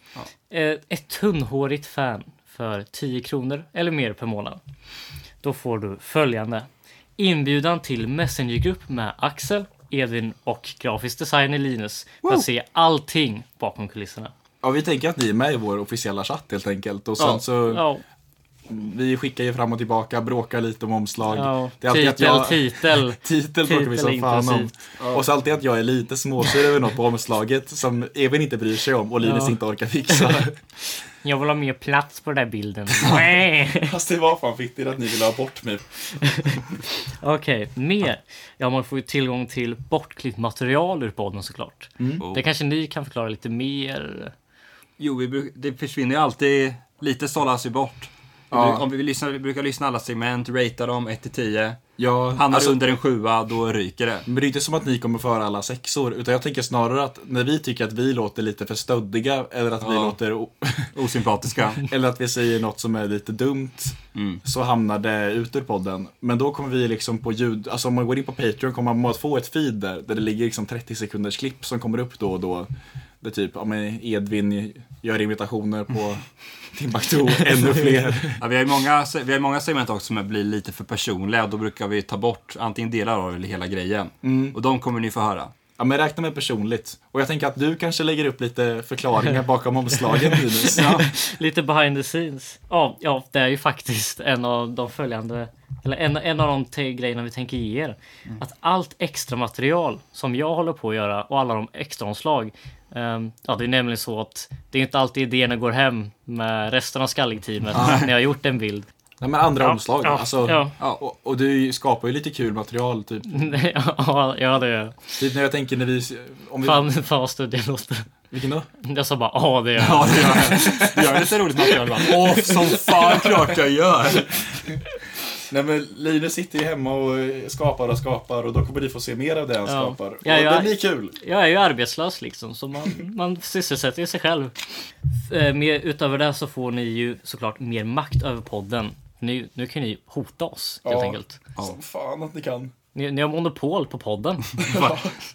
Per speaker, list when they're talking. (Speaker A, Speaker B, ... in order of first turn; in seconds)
Speaker A: 0.5-4.6, 5.4-6.7, 7.2-14.3, 17.2-18.0, 21.3-24.7, 29.2-30.4, 31.2-33.9, 36.2-36.6, 37.2-44.3, 90.7-108.9, 109.6-110.7, 113.3-115.0, 116.6-118.1, 118.8-121.0, 122.1-122.5, 129.7-134.5, 135.3-141.4, 142.9-144.9
Speaker B: 14.6-17.8, 18.7-30.6, 33.8-35.8, 42.0-42.2, 48.5-48.9, 52.0-52.8, 54.3-60.9, 61.9-72.7, 73.2-76.2, 76.7-78.4, 84.2-84.6, 85.8-91.0, 107.7-108.1, 109.2-113.5, 115.2-116.8, 118.3-118.7, 125.5-131.2, 140.8-142.7, 144.6-145.2
Speaker C: 45.0-51.8, 52.4-54.3, 59.8-60.2, 60.9-61.8, 64.1-64.4, 78.4-85.5, 90.8-91.1, 107.8-108.1, 119.8-124.3